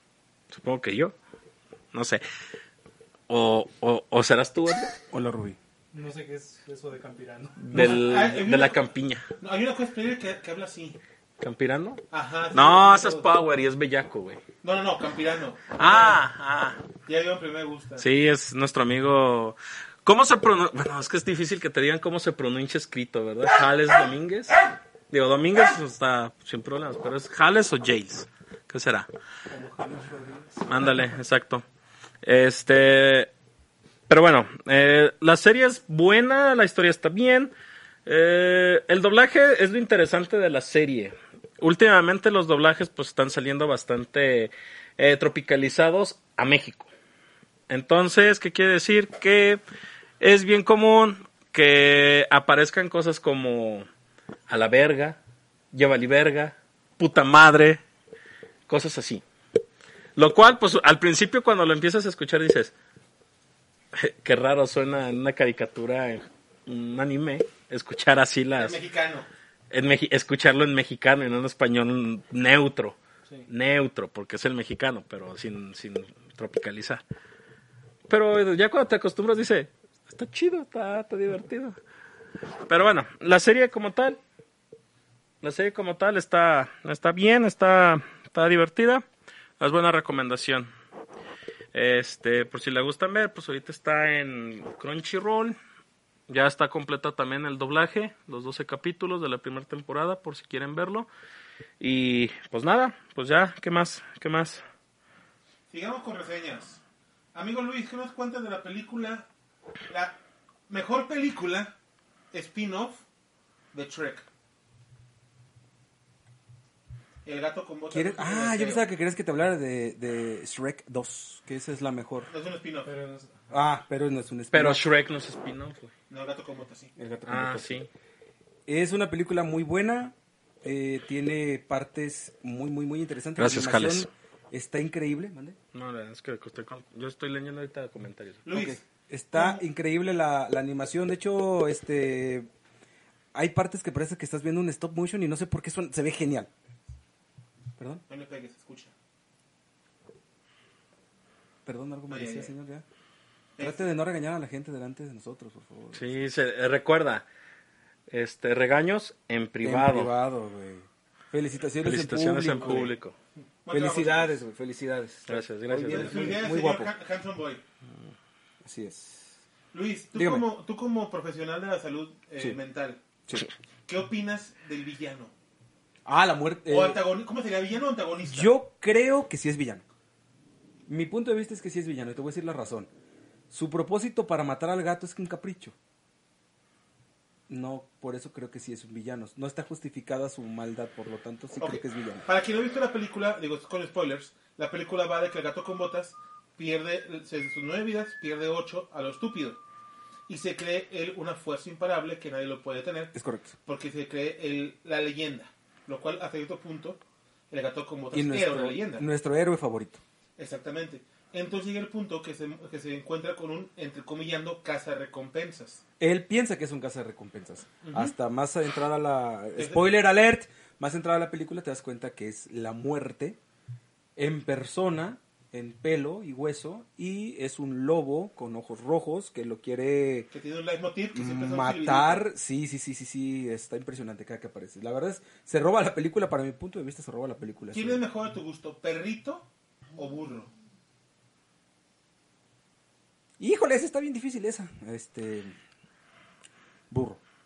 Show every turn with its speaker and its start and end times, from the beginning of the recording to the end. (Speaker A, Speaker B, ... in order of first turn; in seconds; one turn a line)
Speaker A: 0.5-1.1
Speaker A: 1.9-2.2
Speaker A: 3.3-4.9
Speaker B: 5.1-5.6
Speaker C: 5.9-7.6
Speaker A: 7.6-9.3
Speaker D: 7.7-8.8
Speaker D: 9.4-11.0
Speaker A: 11.4-14.4
Speaker D: 12.1-13.3
Speaker D: 14.6-16.2
Speaker A: 15.8-16.8
Speaker D: 17.1-18.1
Speaker A: 18.0-24.6
Speaker A: 25.1-29.1
Speaker A: 30.7-31.6
Speaker A: 32.2-33.3
Speaker A: 34.1-37.5
Speaker A: 38.1-46.9
Speaker A: 47.7-49.6
Speaker A: 50.2-53.9
Speaker A: 54.5-55.2
Speaker A: 55.7-57.8
Speaker A: 58.7-59.2
Speaker A: 60.2-62.7
Speaker A: 63.9-68.8
Speaker D: 68.6-69.3
Speaker A: 69.7-73.0
Speaker A: 73.5-77.0
Speaker A: 78.1-81.8
Speaker A: 82.7-84.2
Speaker A: 85.4-89.0
Speaker A: 89.6-90.7
Speaker A: 91.7-95.6
Speaker A: 96.3-101.1
Speaker A: 101.8-104.6
Speaker D: 105.7-106.8
Speaker D: 107.3-109.3
Speaker D: 109.9-110.2
Speaker D: 110.7-111.7
Speaker D: 112.3-113.0
Speaker D: 113.7-114.3
Speaker D: 117.2-118.8
Speaker B: 117.9-122.3
Speaker D: 122.3-122.9
Speaker C: 122.9-123.3
Speaker B: 123.5-124.8
Speaker A: 124.5-125.9
Speaker D: 126.1-126.9
Speaker B: 127.0-127.8
Speaker A: 127.3-127.9
Speaker B: 128.7-135.6
Speaker A: 133.4-134.1
Speaker A: 135.7-138.4
Speaker D: 138.5-138.8
Speaker B: 138.5-142.5
Speaker D: 139.3-139.6
Speaker B: 143.3-146.5
Speaker B: 147.8-148.0
Speaker D: 148.1-148.9
Speaker B: 151.7-152.8
Speaker D: 152.1-152.5
Speaker D: 153.6-153.9
Speaker B: 153.6-156.1
Speaker A: 155.9-157.3
Speaker A: 158.1-160.1
Speaker B: 159.6-162.9
Speaker A: 161.8-163.2
Speaker D: 162.6-162.9
Speaker D: 163.7-164.4
Speaker B: 163.7-166.9
Speaker A: 165.3-166.4
Speaker D: 165.9-167.6
Speaker B: 168.6-169.4
Speaker D: 169.7-173.0
Speaker B: 170.1-170.5
Speaker D: 173.9-175.3
Speaker B: 176.1-177.0
Speaker D: 176.7-178.5
Speaker B: 178.3-179.8
Speaker B: 180.9-182.9
Speaker B: 183.5-185.8
Speaker B: 187.5-192.3
Speaker D: 191.6-199.6
Speaker D: 200.3-203.1
Speaker B: 203.1-203.6
Speaker D: 203.7-209.1
Speaker B: 208.1-210.0
Speaker D: 210.4-215.8
Speaker B: 216.0-223.4
Speaker D: 217.8-218.2
Speaker D: 219.6-219.9
Speaker B: 224.2-230.3
Speaker D: 230.3-232.2
Speaker B: 231.1-238.0
Speaker D: 237.7-240.5
Speaker B: 243.4-245.6
Speaker B: 246.9-247.2